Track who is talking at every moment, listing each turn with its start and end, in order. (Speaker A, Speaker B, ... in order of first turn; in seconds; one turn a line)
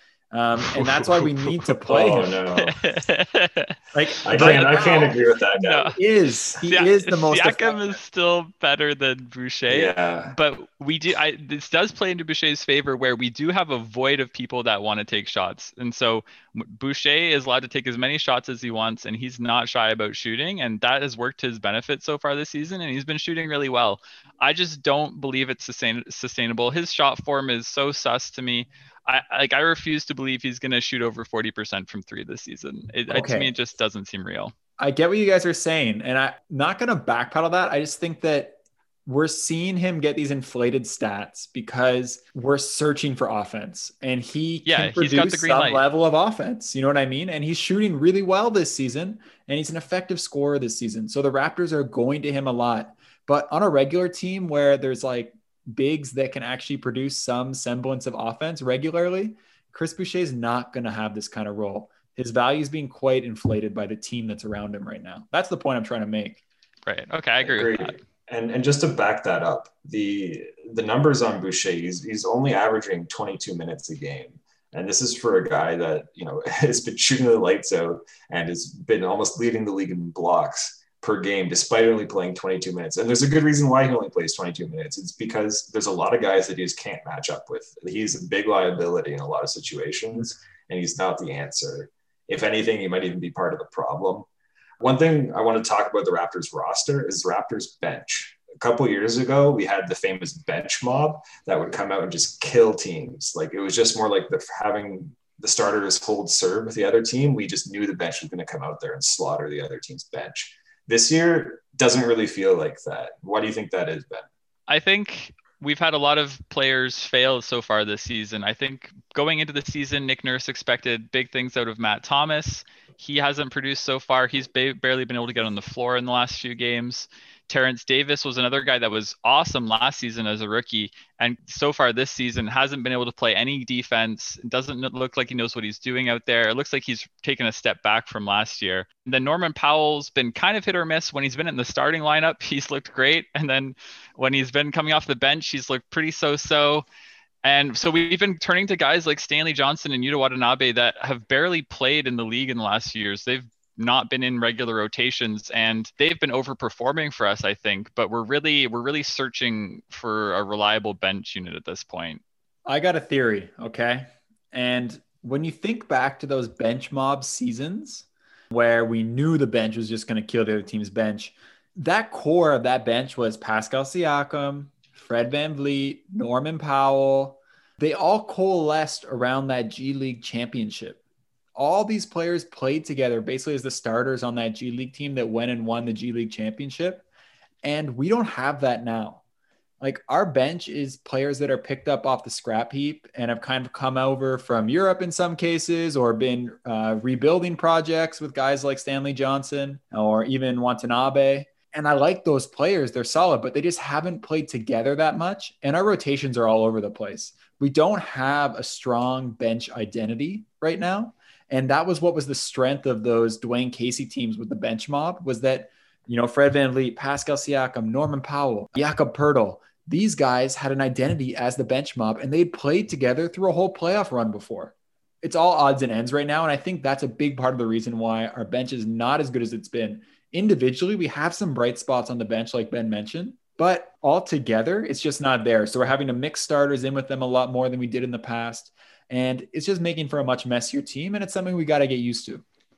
Speaker A: 0.3-2.3
Speaker B: 0.6-1.6
Speaker C: 1.9-2.8
Speaker B: 2.5-3.8
Speaker A: 3.9-5.1
Speaker C: 4.2-5.9
Speaker B: 4.3-6.0
Speaker A: 5.9-8.0
Speaker B: 6.6-34.5
Speaker C: 9.7-10.3
Speaker A: 33.1-33.5
Speaker A: 34.8-66.4
Speaker B: 44.6-45.8
Speaker B: 66.8-68.0
Speaker C: 67.4-94.3
Speaker C: 94.8-114.3
Speaker B: 114.7-146.8
Speaker B: 147.4-162.2
Speaker A: 162.7-181.0
Speaker A: 181.5-187.0
Speaker A: 187.6-189.2
Speaker A: 189.8-242.4